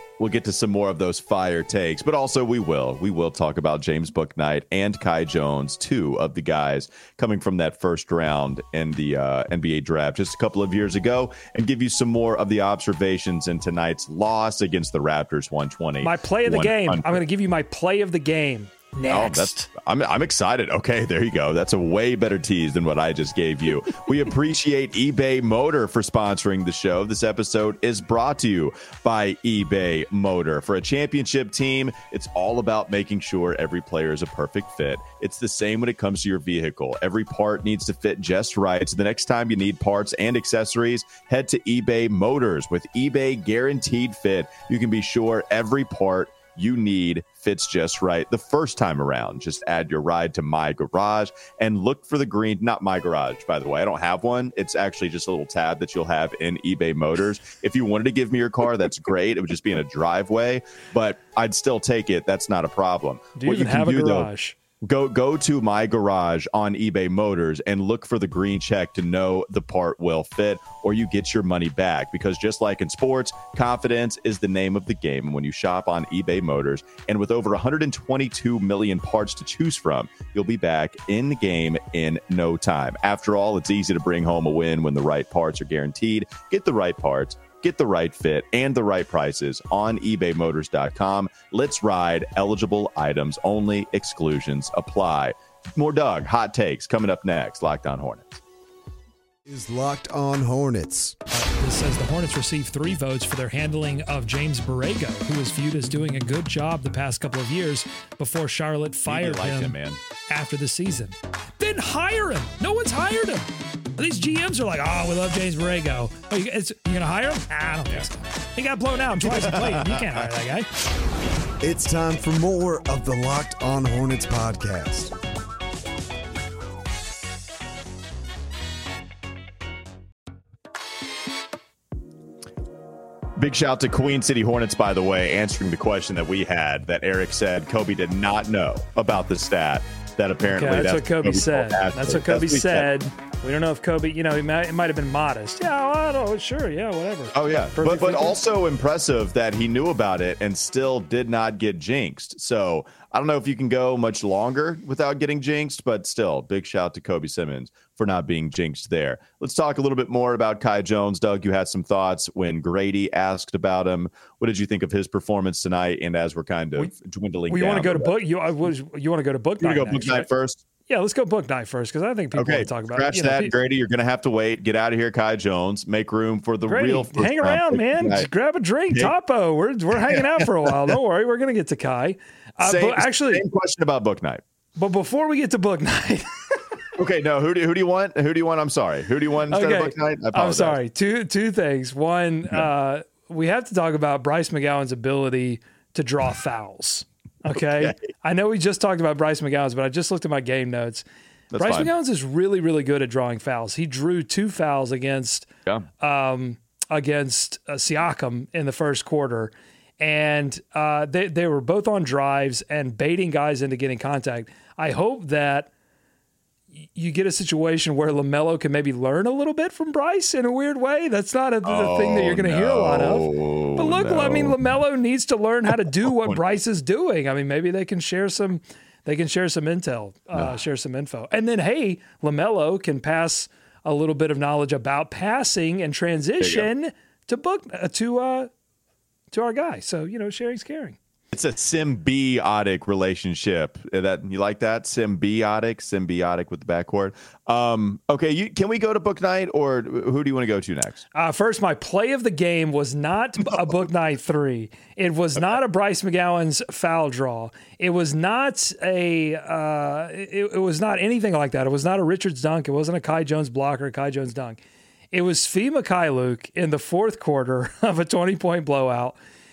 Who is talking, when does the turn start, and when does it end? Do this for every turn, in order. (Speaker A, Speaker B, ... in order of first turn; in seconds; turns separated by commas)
Speaker A: 0.2-17.2, Speaker B: 16.0-19.7, Speaker A: 19.1-64.3, Speaker B: 63.4-64.6, Speaker A: 64.8-98.4, Speaker C: 99.5-101.2, Speaker B: 101.3-109.8, Speaker A: 109.1-110.0, Speaker B: 110.3-120.7, Speaker A: 119.2-120.2, Speaker C: 121.6-125.1, Speaker A: 133.4-142.9, Speaker B: 140.5-148.4, Speaker A: 147.3-168.1, Speaker B: 167.5-170.3, Speaker A: 169.6-170.6, Speaker B: 170.9-173.5, Speaker A: 172.3-178.3, Speaker B: 176.7-183.4, Speaker A: 180.1-180.9, Speaker A: 182.6-184.4, Speaker B: 184.8-186.3, Speaker A: 186.9-190.8, Speaker B: 189.5-201.0, Speaker A: 197.5-197.9, Speaker A: 201.5-201.9, Speaker B: 201.6-205.5, Speaker B: 206.0-215.7, Speaker B: 216.7-238.5, Speaker A: 221.6-224.6, Speaker A: 226.1-226.4, Speaker A: 236.4-236.7, Speaker B: 239.3-241.0, Speaker A: 241.3-251.0, Speaker B: 251.1-264.6, Speaker B: 265.1-269.2